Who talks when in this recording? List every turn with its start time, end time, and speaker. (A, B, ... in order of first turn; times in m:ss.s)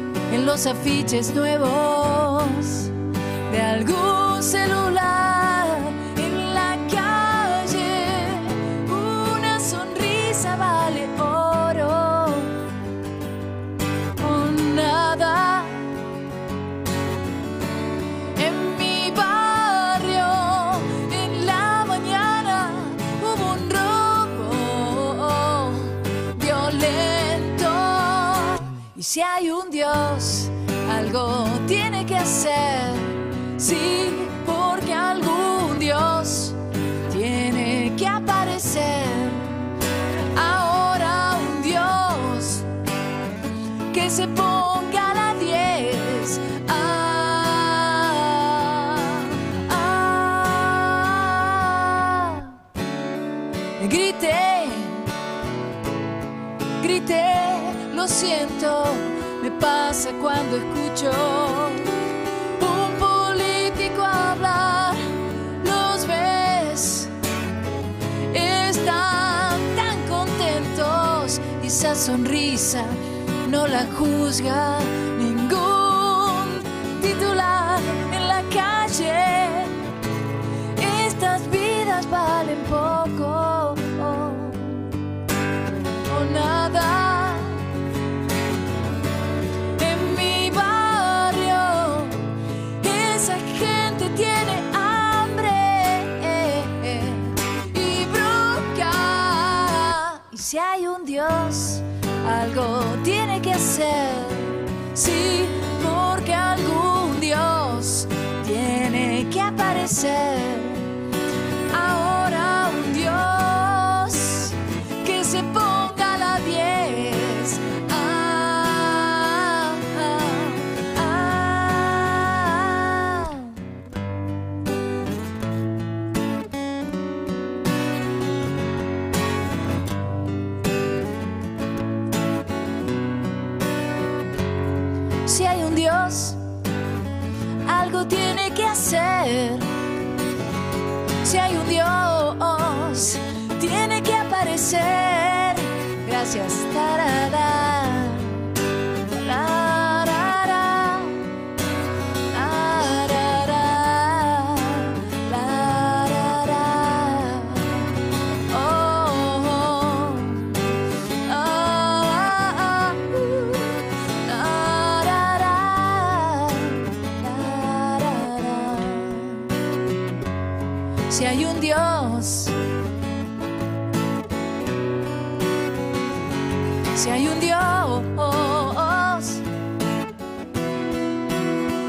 0:00.3-0:02.9 A
0:03.5-0:12.5 A
0:14.2-0:15.8 A
0:18.4-0:36.6 A
0:37.1-0:39.7 A
0:40.3-0:42.6 A
0:43.9-0:52.6 A
0:53.8-0:55.1 A
0:56.8-1:01.9 A
1:02.6-1:05.0 A
1:05.6-1:07.1 A
1:08.3-1:19.7 A
1:20.8-1:24.9 A
1:26.1-1:27.6 A
1:29.8-1:32.2 A
1:32.8-1:50.9 A
1:51.7-2:03.6 A
2:15.2-2:16.4 A
2:17.6-2:19.7 A
2:21.2-2:28.5 A
2:29.1-2:31.2 A
2:32.3-2:37.9 A
2:38.5-2:40.6 A
2:41.2-2:49.4 A
2:51.1-2:52.5 A
2:56.9-2:59.4 A